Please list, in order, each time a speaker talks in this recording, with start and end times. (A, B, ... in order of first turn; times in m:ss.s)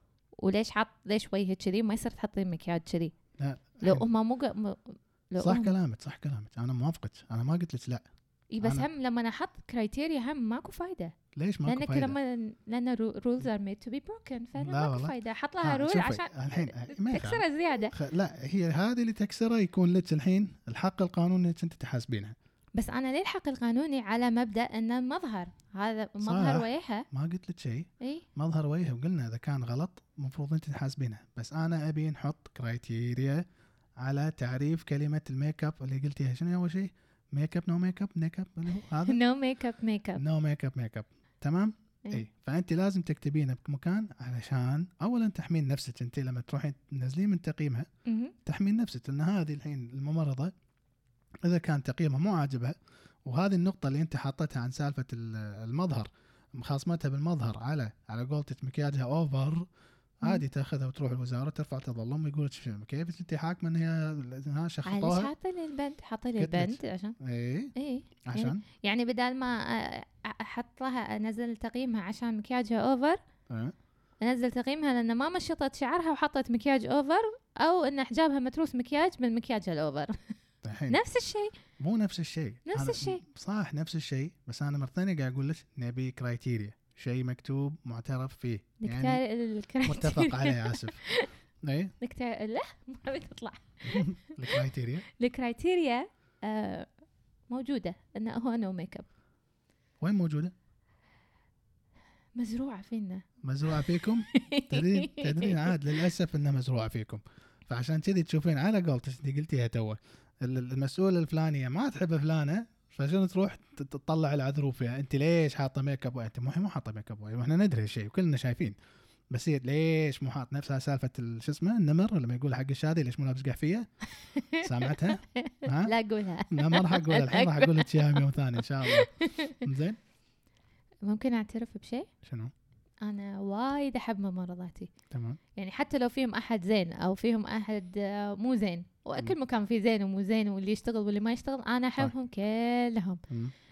0:00.4-0:03.1 A
0:03.4-0:04.0 B
0:03.8-0:05.7 A
0:05.4-0:08.0 B
0:08.5-0:11.1 A
0:08.6-0:08.9 B
0:11.3-0:12.2 B
0:11.6-0:17.9 A
0:14.6-0:22.3 B
0:22.7-0:27.0 A
0:26.2-0:33.4 B
0:34.0-0:39.2 B
0:39.0-0:40.2 A
0:40.2-0:47.9 B
0:48.0-0:48.3 A
0:48.4-0:50.5 B
0:51.4-0:52.7 B
0:53.2-0:59.6 B
1:00.2-1:05.3 B
1:04.8-1:07.2 A
1:06.4-1:07.7 B
1:07.7-1:13.2 A
1:08.2-1:08.6 B
1:14.2-1:20.2 A
1:20.6-1:21.0 B
1:20.9-1:21.5 A
1:21.8-1:29.2 B
1:22.6-1:23.2 A
1:28.8-1:31.3 A
1:29.8-1:31.0 B
1:31.6-1:31.9 B
1:32.0-1:36.9 A
1:33.8-1:35.1 B
1:37.5-1:39.0 A
1:40.0-1:40.5 B
1:42.3-1:45.8 A
1:43.4-1:58.7 B
1:59.3-2:03.9 B
2:04.3-2:09.6 A
2:04.6-2:05.9 B
2:06.5-2:10.0 B
2:11.0-2:12.1 A
2:12.2-2:12.5 B
2:13.0-2:14.9 A
2:15.1-2:15.4 B
2:15.6-2:23.2 A